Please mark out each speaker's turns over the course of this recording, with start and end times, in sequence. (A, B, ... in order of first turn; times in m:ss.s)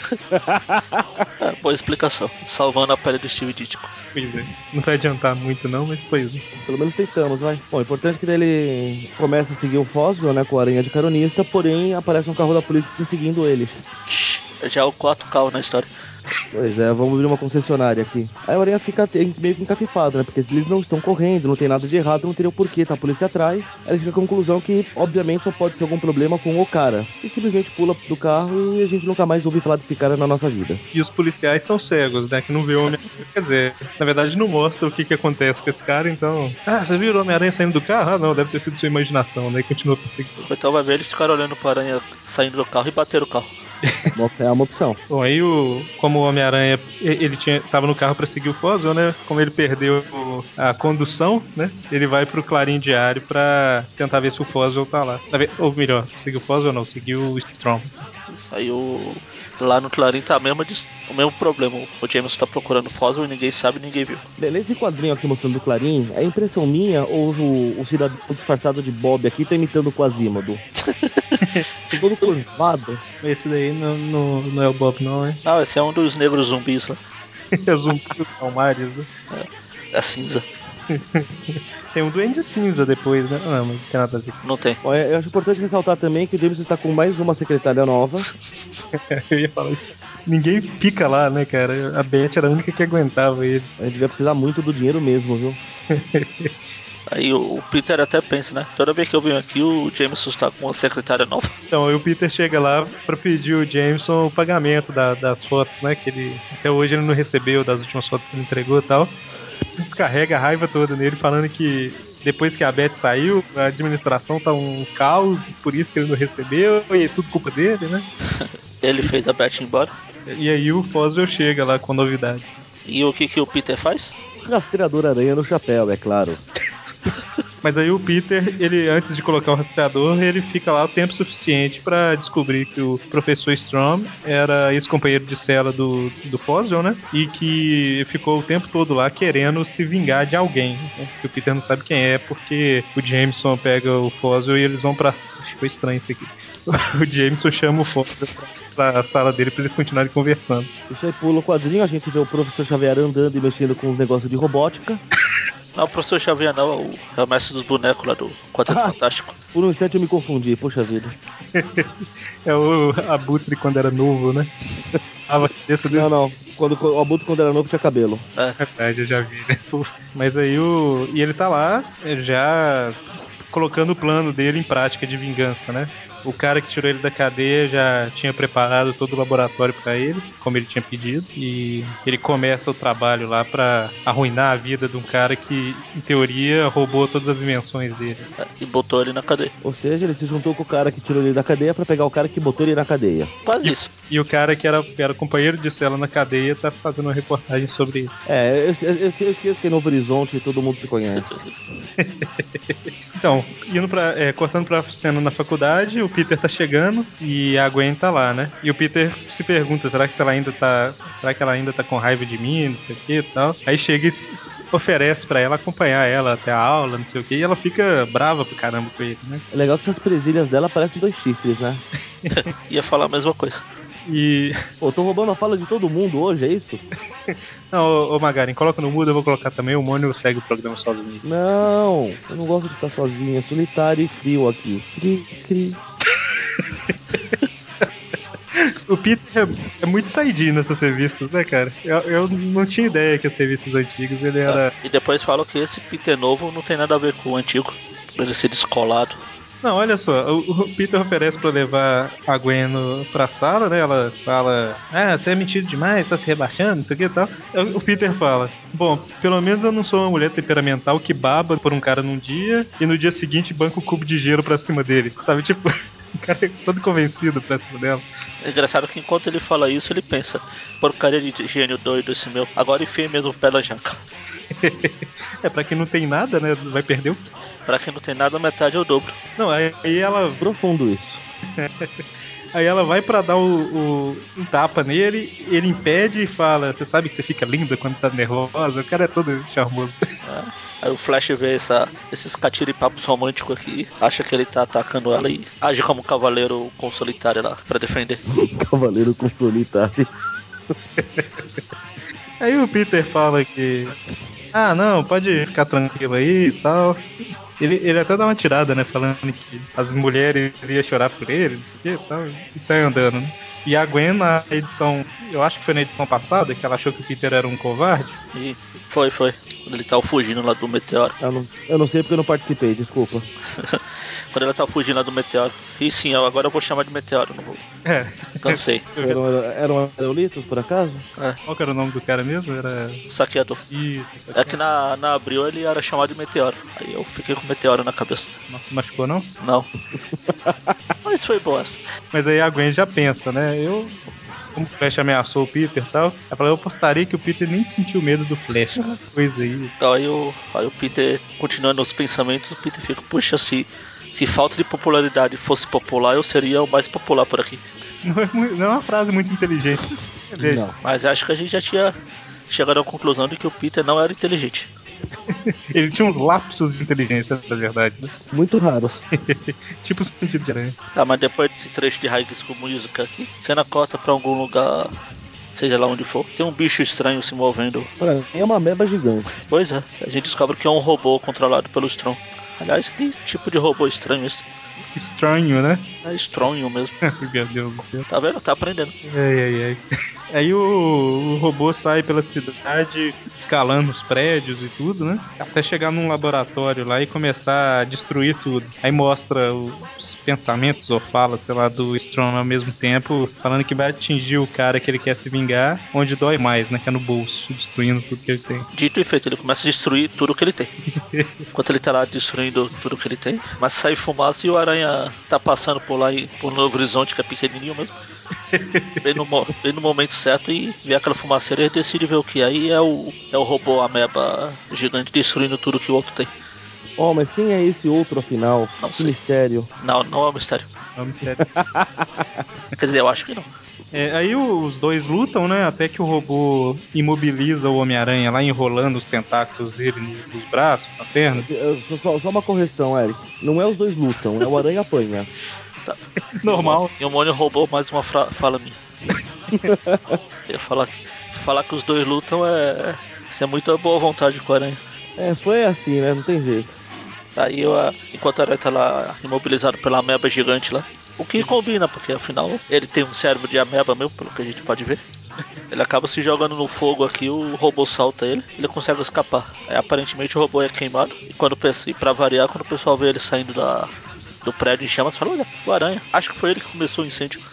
0:00.3-0:01.2 A
0:01.4-0:03.9 B
0:04.2-0:06.4 C
0:06.6-0:13.8 A
0:14.1-0:15.9 B
0:16.5-0:30.8 A
0:30.9-0:40.4 C
0:40.4-0:43.5 B
0:43.9-0:44.1 C
0:44.1-0:45.0 A
0:45.1-0:58.1 C
0:58.3-1:04.2 B
1:04.4-1:10.6 A
1:10.8-1:11.3 B
1:11.9-1:13.0 A
1:13.2-1:15.4 C
1:15.4-1:17.0 B
1:17.6-1:19.1 C
1:19.3-1:20.5 B
1:20.9-1:24.4 C
1:24.4-1:24.8 B
1:24.8-1:28.3 A
1:29.1-1:33.7 C
1:33.8-1:35.6 A
1:35.9-1:36.5 C
1:37.1-1:41.6 B
1:41.7-1:49.2 C
1:49.7-1:58.1 C
1:58.8-1:59.9 B
2:00.3-2:02.5 C
2:02.9-2:04.2 B
2:04.4-2:06.4 A
2:07.6-2:30.7 C
2:30.9-2:35.0 A
2:35.8-2:39.4 B
2:38.7-2:39.0 A
2:39.5-2:41.2 A
2:41.5-2:44.5 C
2:45.3-2:46.1 C
2:45.9-2:48.2 A
2:48.6-3:08.3 C
3:08.4-3:09.5 B
3:09.6-3:13.3 A
3:13.4-3:13.9 B
3:13.6-3:18.1 C
3:18.3-3:21.4 A
3:21.2-3:21.5 B
3:22.0-3:22.3 C
3:23.2-3:39.4 C
3:39.5-3:41.8 A
3:42.3-3:43.6 B
3:44.1-3:44.6 C
3:44.8-3:46.8 A
3:47.7-3:51.2 C
3:51.2-3:55.8 A
3:58.5-4:04.7 C
4:04.5-4:09.2 B
4:09.6-4:28.0 C
4:28.4-4:34.0 B
4:34.5-4:37.2 C
4:37.7-4:39.2 B
4:39.4-4:40.4 C
4:40.4-4:41.2 A
4:41.6-4:41.9 C
4:42.5-4:50.0 C
4:50.2-4:58.2 B
4:58.3-5:00.1 A
5:01.0-5:01.4 C
5:02.4-5:04.0 C
5:04.5-5:07.1 C
5:07.6-5:18.2 C
5:18.3-5:21.2 B
5:21.2-5:23.3 A
5:23.6-5:27.6 B
5:27.9-5:29.2 C
5:28.4-5:28.9 B
5:29.0-5:31.0 A
5:31.5-5:33.0 C
5:33.1-5:33.6 B
5:33.7-5:34.6 C
5:34.3-5:38.3 B
5:38.5-5:39.3 C
5:39.4-5:39.7 B
5:40.1-5:40.7 A
5:41.0-5:41.8 B
5:42.1-5:44.0 C
5:44.6-5:49.7 C
5:49.8-5:57.6 B
5:58.0-6:00.6 C
6:00.4-6:00.7 A
6:00.8-6:01.9 B
6:02.5-6:04.7 B
6:05.3-6:08.1 C
6:08.3-6:09.0 A
6:09.2-6:10.8 C
6:10.9-6:14.9 B
6:15.5-6:17.9 B
6:18.0-6:19.4 A
6:19.4-6:24.5 B
6:24.9-6:25.9 C
6:26.0-6:27.0 B
6:27.0-6:28.0 C
6:28.1-6:28.9 B
6:29.0-6:48.7 C
6:48.7-6:50.7 B
6:51.5-6:58.0 B
6:58.5-6:59.0 C
6:59.0-7:06.3 B
7:07.0-7:09.7 A
7:08.8-7:09.2 B
7:09.8-7:10.7 B
7:11.0-7:11.5 C
7:11.4-7:12.2 A
7:12.8-7:13.5 B
7:13.9-7:21.5 C
7:21.4-7:25.3 A
7:25.8-7:28.8 B
7:26.4-7:26.9 C
7:29.5-7:30.2 A
7:30.5-7:34.8 B
7:35.2-7:36.8 A
7:37.4-7:45.0 B
7:45.7-7:53.9 B
7:54.4-7:57.4 B